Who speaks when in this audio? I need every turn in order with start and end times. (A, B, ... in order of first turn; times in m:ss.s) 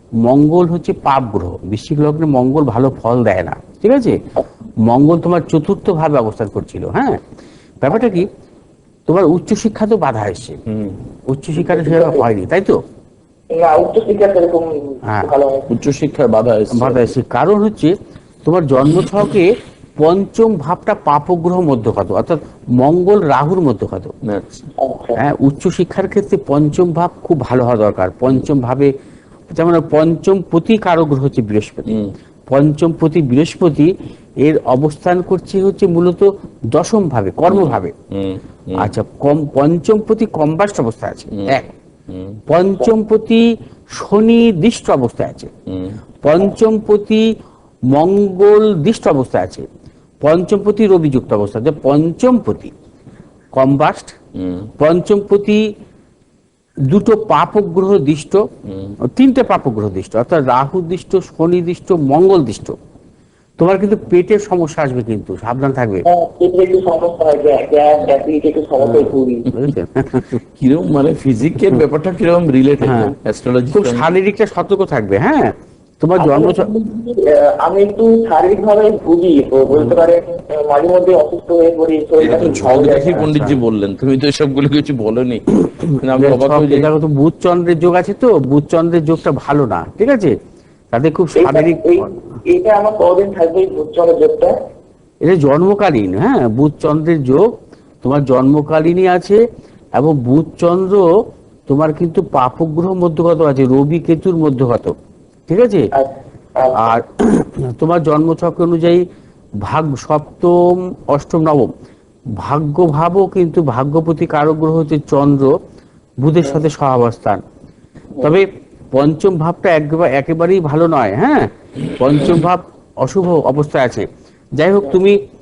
0:00.2-0:04.2 A
0:04.8-0:07.2 A
0:07.8-0:08.3 A
0:09.1-0:10.6 A
0:10.6-0:11.0 B
0:11.3-0:12.8 A
0:11.6-0:12.3 C
0:13.5-0:15.7 C
0:15.7-0:17.1 B
0:16.7-0:24.1 A
0:24.2-0:24.7 B
0:24.8-0:25.2 C
0:25.2-0:28.9 A
0:29.5-0:32.0 A
0:31.9-0:32.1 B
0:32.5-0:33.9 A
0:34.4-0:37.9 A
0:37.5-0:38.9 B
0:38.8-0:41.7 A
0:42.1-0:42.4 B
0:42.5-0:45.5 A
0:45.7-0:46.0 B
0:46.2-0:47.2 A
0:47.9-0:49.7 A
0:50.2-0:52.7 A
0:53.6-0:54.2 A
0:54.4-0:54.7 B
0:54.8-0:55.6 A
0:56.9-0:58.4 A
0:58.7-0:59.0 B
0:59.0-1:02.8 A
1:03.6-1:06.0 A
1:06.1-1:09.5 C
1:08.8-1:10.4 A
1:10.6-1:14.1 B
1:12.8-1:13.1 A
1:13.7-1:16.7 A
1:16.2-1:23.3 C
1:22.2-1:25.4 B
1:23.1-1:23.6 A
1:25.6-1:30.4 A
1:26.0-1:26.9 B
1:30.9-1:32.1 A
1:31.4-1:34.6 C
1:35.2-1:37.5 A
1:38.0-1:39.4 A
1:40.0-1:41.1 A
1:41.7-1:44.9 A
1:45.5-1:45.9 A
1:46.0-1:47.0 C
1:46.8-1:49.1 A
1:49.6-1:51.7 A
1:52.4-1:55.5 A
1:56.2-1:57.4 A
1:58.2-2:05.2 A